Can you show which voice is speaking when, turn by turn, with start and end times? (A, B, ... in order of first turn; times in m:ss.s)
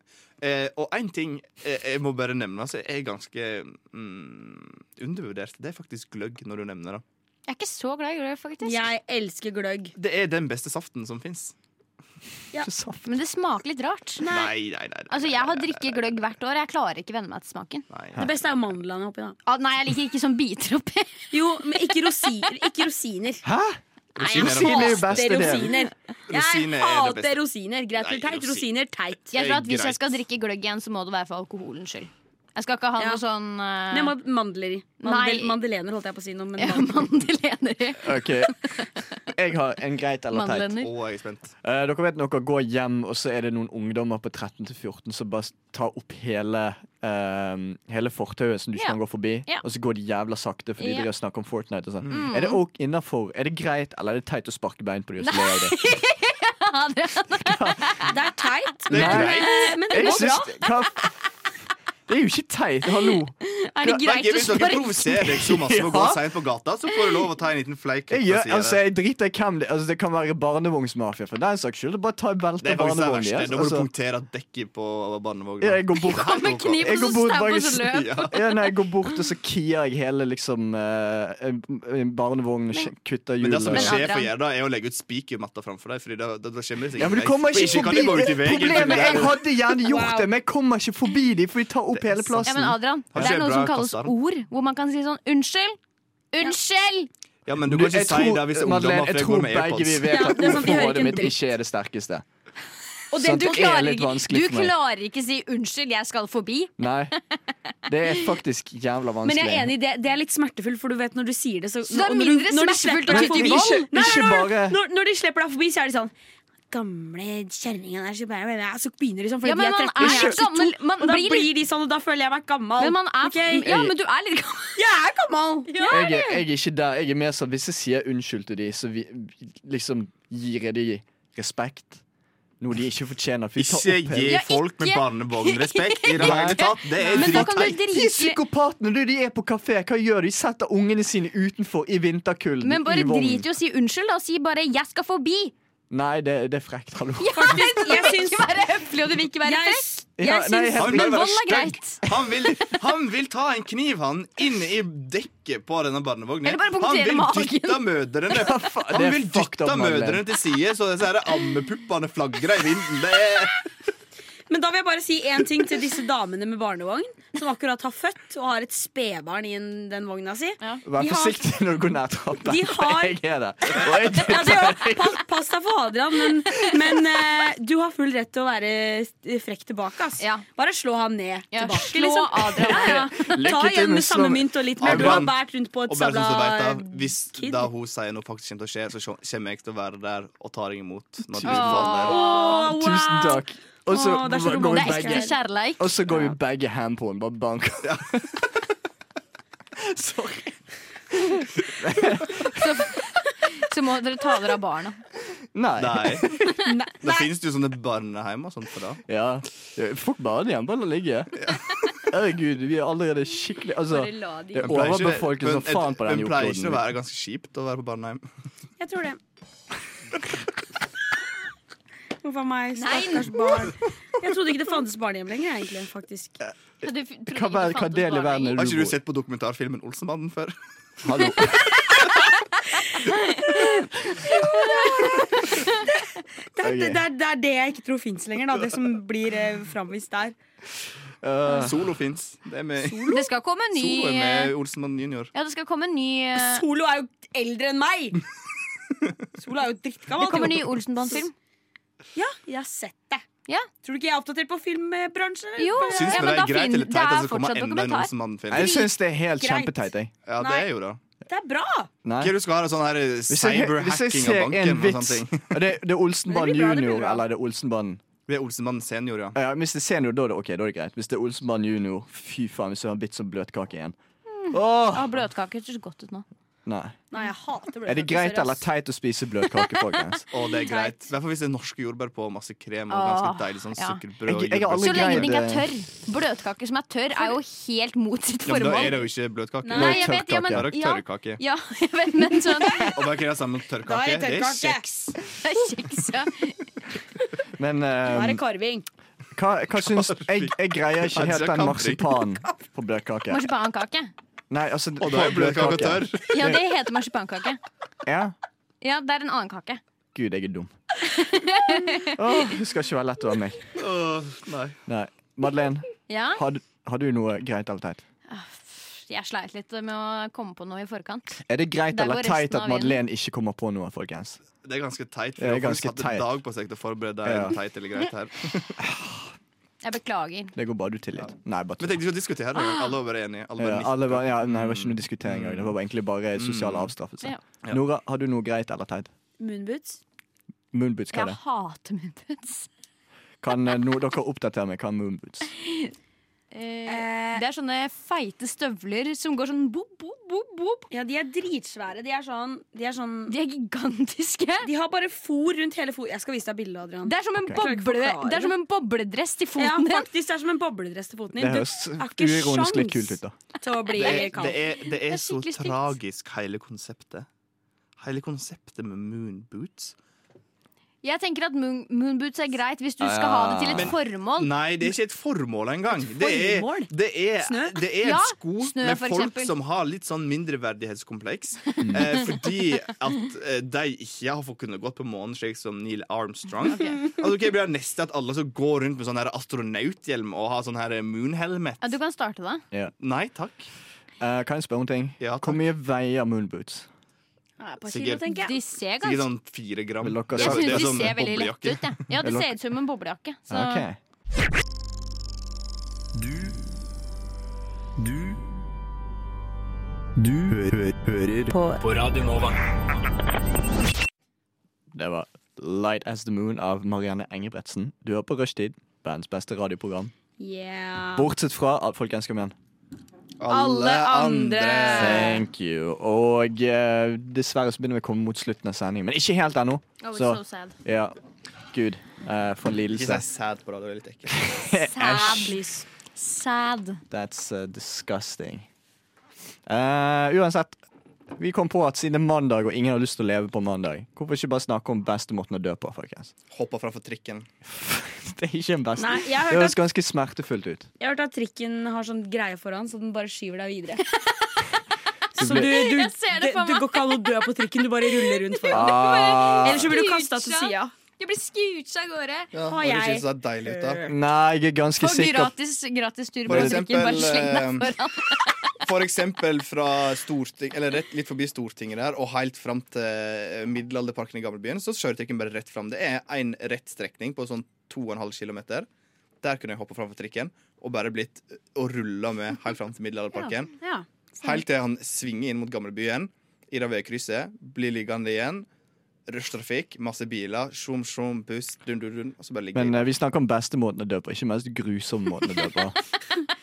0:00.4-0:07.0 A
0:07.5-0:08.9 B
0:08.6-0:09.9 C
0:10.0-0:11.5 A
0:12.6-0:13.2 D
0:13.0-0:14.2 B
0:14.2-0:14.5 C
0:14.2-0:16.1 A
0:15.1-0:17.9 B
0:17.9-0:18.3 A
0:18.2-0:19.4 C
0:19.4-0:21.9 B
0:21.3-0:23.4 C
0:23.4-0:25.7 D
0:24.2-0:25.6 A
0:24.3-0:29.3 C
0:26.3-0:27.4 A
0:28.0-0:28.6 A
0:29.3-0:30.1 A
0:29.3-0:34.1 B
0:33.9-0:37.1 C
0:35.0-0:35.6 B
0:36.6-0:39.0 B
0:38.0-0:38.5 D
0:39.3-0:40.8 D
0:40.3-0:40.9 B
0:40.8-0:41.5 A
0:41.6-0:55.8 D
0:48.8-0:49.6 B
0:50.8-0:51.1 B
0:52.1-0:52.6 B
0:55.2-0:58.1 B
0:57.4-0:58.0 D
0:58.1-1:00.6 C
0:58.9-0:59.5 A
0:58.9-1:01.0 D
0:59.0-1:00.7 B
1:02.1-1:04.0 D
1:03.4-1:05.5 B
1:03.9-1:08.8 A
1:05.4-1:06.3 D
1:08.1-1:13.9 D
1:12.6-1:17.1 A
1:15.6-1:24.0 D
1:16.0-1:18.4 B
1:17.8-1:18.4 A
1:23.4-1:29.4 A
1:23.7-1:24.3 B
1:27.0-1:33.3 D
1:29.8-1:30.3 C
1:31.9-1:34.1 A
1:32.4-1:35.8 B
1:36.3-1:37.1 B
1:37.4-1:40.8 A
1:37.6-1:42.2 D
1:40.0-1:41.4 C
1:43.1-1:44.1 C
1:43.2-1:44.7 D
1:43.3-1:46.8 B
1:46.8-1:47.1 D
1:47.9-1:49.7 D
1:49.2-1:56.1 C
1:51.9-1:53.9 B
1:53.1-1:54.8 D
1:56.7-2:03.8 C
1:59.4-2:01.5 B
2:00.0-2:00.4 D
2:02.8-2:04.8 B
2:03.6-2:03.9 D
2:04.8-2:06.4 C
2:05.7-2:06.1 B
2:05.9-2:12.0 D
2:12.6-2:14.4 D
2:13.6-2:17.8 A
2:14.2-2:18.4 B
2:16.1-2:23.4 D
2:22.6-2:25.5 B
2:25.9-2:27.6 D
2:27.2-2:29.8 B
2:27.3-2:28.5 C
2:29.4-2:30.8 C
2:30.2-2:32.2 D
2:30.8-2:43.6 A
2:30.8-2:32.0 B
2:36.4-2:37.9 B
2:38.3-2:40.2 D
2:44.5-2:51.4 C
2:50.8-2:55.2 D
2:52.4-2:53.2 C
2:53.8-3:07.7 C
3:00.2-3:00.4 B
3:01.5-3:03.3 B
3:02.5-3:05.3 D
3:04.8-3:05.4 A
3:05.9-3:12.2 A
3:11.3-3:12.0 D
3:11.4-3:12.7 B
3:11.9-3:15.3 C
3:12.5-3:18.4 D
3:14.6-3:16.0 B
3:17.8-3:18.2 A
3:19.8-3:20.6 D
3:21.8-3:22.9 D
3:22.5-3:25.0 B
3:25.5-3:26.5 D
3:25.8-3:26.3 A
3:26.6-3:27.3 C
3:27.0-3:29.0 A
3:29.1-3:36.8 D
3:33.9-3:34.8 B
3:34.6-3:38.2 A
3:38.8-3:39.2 C
3:42.2-3:46.4 C
3:42.8-3:43.7 B
3:46.8-3:48.6 B
3:47.3-3:49.0 D
3:48.6-3:50.6 A
3:51.0-3:51.8 D
3:53.0-3:55.8 B
3:53.4-4:00.3 C
3:56.6-3:57.0 D
4:01.2-4:01.9 D
4:01.5-4:03.2 A
4:02.8-4:03.2 C
4:03.1-4:04.5 B
4:03.7-4:05.3 A
4:05.3-4:06.6 B
4:06.3-4:08.2 C
4:09.4-4:11.2 C
4:10.2-4:11.3 B
4:12.1-4:13.2 C
4:13.8-4:16.4 C
4:15.6-4:18.1 B
4:15.9-4:18.7 A
4:18.5-4:20.1 D
4:18.5-4:19.8 C
4:20.2-4:21.0 A
4:20.4-4:20.7 C
4:21.3-4:21.9 C
4:22.0-4:22.3 D
4:22.2-4:25.6 A
4:23.3-4:28.0 D
4:26.3-4:27.2 C
4:28.3-4:29.4 A
4:29.3-4:34.0 D
4:34.4-4:36.2 B
4:34.5-4:35.2 D
4:36.6-4:37.0 D
4:37.1-4:38.6 C
4:37.8-4:40.2 D
4:40.3-4:45.4 A
4:40.6-4:41.0 C
4:42.9-4:44.0 B
4:44.2-4:45.7 D
4:44.8-4:49.0 B
4:48.4-4:51.4 A
4:49.6-4:50.0 C
4:49.7-4:53.0 B
4:49.7-4:50.7 D
4:52.9-4:54.8 A
4:53.8-4:55.1 C
4:55.3-4:56.6 B
4:57.6-4:58.4 D
4:58.1-4:58.8 C
4:59.3-5:03.4 D
4:59.8-5:02.0 A
5:03.3-5:04.1 B
5:04.5-5:06.6 D
5:05.0-5:06.2 A
5:06.3-5:07.6 B
5:08.0-5:08.3 D
5:08.8-5:09.8 B
5:10.1-5:10.7 D
5:11.0-5:12.2 B
5:12.0-5:13.6 D
5:13.8-5:14.8 A
5:14.9-5:18.0 D
5:16.1-5:16.4 B
5:18.3-5:23.0 B
5:21.4-5:24.4 D
5:24.6-5:28.8 A
5:25.4-5:26.3 D
5:27.2-5:27.6 D
5:28.8-5:29.3 D
5:29.8-5:30.5 B
5:30.5-5:32.0 D
5:31.8-5:35.7 A
5:32.6-5:32.9 B
5:33.6-5:39.1 D
5:36.4-5:36.9 A
5:39.4-5:40.0 C
5:40.7-5:41.4 D
5:41.1-5:42.7 B
5:43.4-5:45.5 D
5:45.6-5:45.9 B
5:46.5-5:50.9 B
5:46.9-5:47.4 C
5:50.9-5:53.3 C
5:53.3-5:54.7 B
5:54.6-5:58.5 C
5:57.0-6:00.1 B
5:59.6-6:04.7 C
6:01.4-6:03.3 D
6:03.9-6:05.9 B
6:03.9-6:07.3 A
6:08.0-6:09.9 A
6:11.0-6:14.5 B
6:13.0-6:13.9 D
6:13.7-6:32.0 A
6:15.9-6:16.9 C
6:17.4-6:17.8 C
6:18.0-6:19.5 B
6:21.8-6:22.2 D
6:26.7-6:27.0 B
6:31.8-6:32.6 B
6:33.0-6:33.7 A
6:34.2-6:36.9 D
6:35.2-6:35.6 A
6:37.6-6:38.6 C
6:37.9-6:38.2 A
6:38.3-6:39.3 B
6:39.0-6:41.9 A
6:40.0-6:41.2 D
6:40.3-6:43.9 B
6:42.2-6:42.5 D
6:43.5-6:44.0 D
6:46.1-6:46.6 E
6:48.0-6:48.4 E
6:50.2-6:52.6 E
6:54.9-7:00.1 D
7:00.4-7:01.3 C
7:01.2-7:02.5 D
7:03.4-7:05.4 A
7:03.5-7:05.4 C
7:04.9-7:11.1 D
7:10.0-7:10.8 B
7:11.7-7:13.2 D
7:12.9-7:14.5 A
7:14.3-7:15.6 D
7:14.8-7:15.6 B
7:15.0-7:15.8 C
7:16.2-7:17.0 B
7:17.1-7:18.6 D
7:19.6-7:20.8 D
7:21.4-7:26.3 D
7:26.5-7:27.5 A
7:27.6-7:30.9 D
7:29.0-7:29.8 C
7:31.0-7:34.0 C
7:34.2-7:34.6 B
7:35.4-7:39.0 C
7:35.4-7:35.7 D
7:35.4-7:37.4 B
7:38.0-7:42.5 B
7:38.7-7:39.9 D
7:39.6-7:40.9 C
7:42.5-7:44.0 A
7:42.6-7:44.1 C
7:44.0-7:45.5 D
7:45.0-7:48.7 B
7:46.4-7:48.0 A
7:46.5-7:47.2 D
7:48.8-7:58.9 A
7:59.4-8:03.7 A
8:03.4-8:04.6 C
8:04.4-8:08.7 A
8:09.3-8:13.0 A
8:12.7-8:16.0 D